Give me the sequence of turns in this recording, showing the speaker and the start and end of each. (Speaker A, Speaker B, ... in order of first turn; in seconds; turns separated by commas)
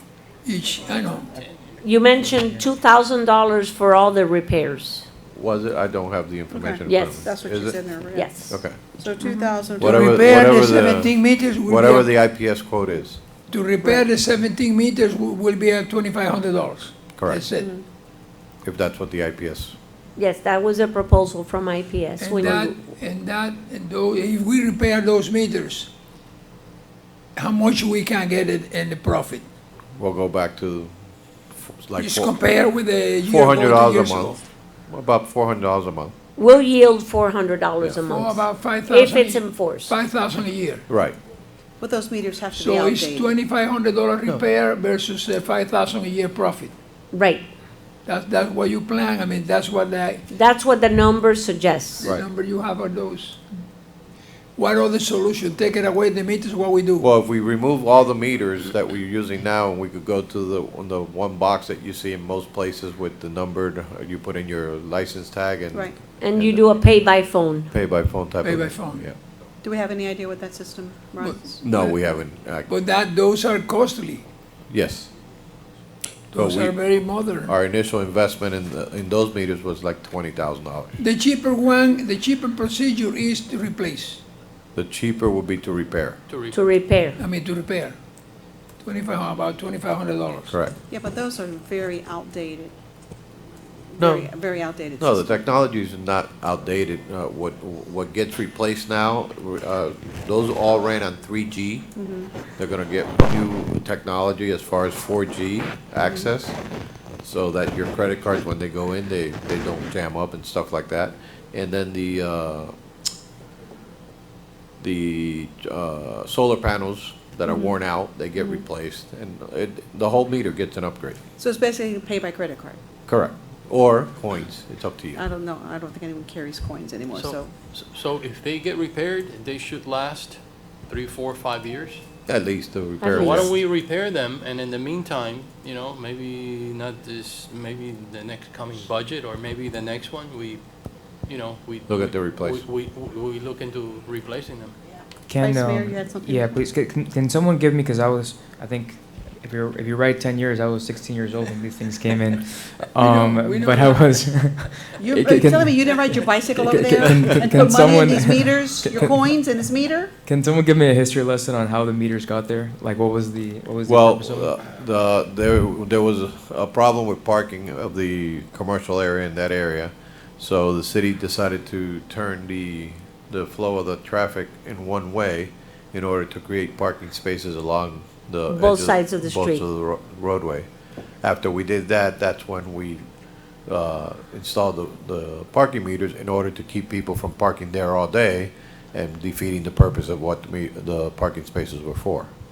Speaker A: 0.4-1.4, Speaker B: 1.8-5.1, Speaker C: 2.2-2.6, Speaker D: 5.3-7.8, Speaker E: 6.5-10.0, Speaker B: 6.8-7.3, Speaker B: 8.1-8.5, Speaker D: 8.5-8.8, Speaker A: 9.8-12.1, Speaker D: 9.8-13.2, Speaker A: 13.5-17.7, Speaker D: 17.2-17.4, Speaker E: 17.6-17.8, Speaker D: 18.6-19.8, Speaker B: 20.2-22.8, Speaker A: 22.2-25.9, Speaker A: 27.4-29.4, Speaker D: 30.0-30.9, Speaker D: 31.5-32.3, Speaker A: 32.0-34.4, Speaker D: 33.2-36.1, Speaker B: 36.4-40.0, Speaker A: 38.1-40.9, Speaker D: 40.9-41.2, Speaker E: 41.8-43.3, Speaker A: 42.6-46.7, Speaker B: 47.1-47.5, Speaker A: 48.1-50.2, Speaker B: 50.3-52.2, Speaker A: 52.0-53.4, Speaker A: 54.6-57.1, Speaker D: 57.0-66.7, Speaker B: 66.2-67.7, Speaker D: 67.7-69.2, Speaker A: 68.4-69.0, Speaker E: 69.6-71.6, Speaker A: 71.2-72.1, Speaker D: 71.6-72.7, Speaker A: 72.7-74.2, Speaker D: 74.7-75.1, Speaker A: 76.3-77.5, Speaker D: 76.3-76.8, Speaker D: 77.5-81.0, Speaker A: 81.0-84.2, Speaker D: 84.8-86.2, Speaker F: 86.3-86.7, Speaker B: 86.5-87.2, Speaker A: 87.2-88.0, Speaker A: 88.8-90.5, Speaker D: 90.5-90.8, Speaker E: 90.9-92.7, Speaker D: 94.0-94.3, Speaker E: 94.0-95.2, Speaker D: 95.0-101.9, Speaker E: 102.0-102.3, Speaker D: 102.6-106.6, Speaker D: 107.2-112.7, Speaker D: 114.8-121.2, Speaker E: 117.5-117.7, Speaker E: 121.4-122.8, Speaker D: 123.1-125.2, Speaker E: 125.2-127.5, Speaker F: 127.1-132.0, Speaker D: 132.3-133.5, Speaker B: 133.0-133.5, Speaker F: 133.1-140.6, Speaker F: 141.3-144.8, Speaker D: 141.9-142.6, Speaker C: 145.3-159.2, Speaker E: 145.4-146.6, Speaker A: 153.0-154.2, Speaker E: 155.0-160.1, Speaker C: 160.2-164.6, Speaker D: 163.8-180.7, Speaker B: 178.5-179.7, Speaker D: 181.2-183.1, Speaker D: 183.7-192.3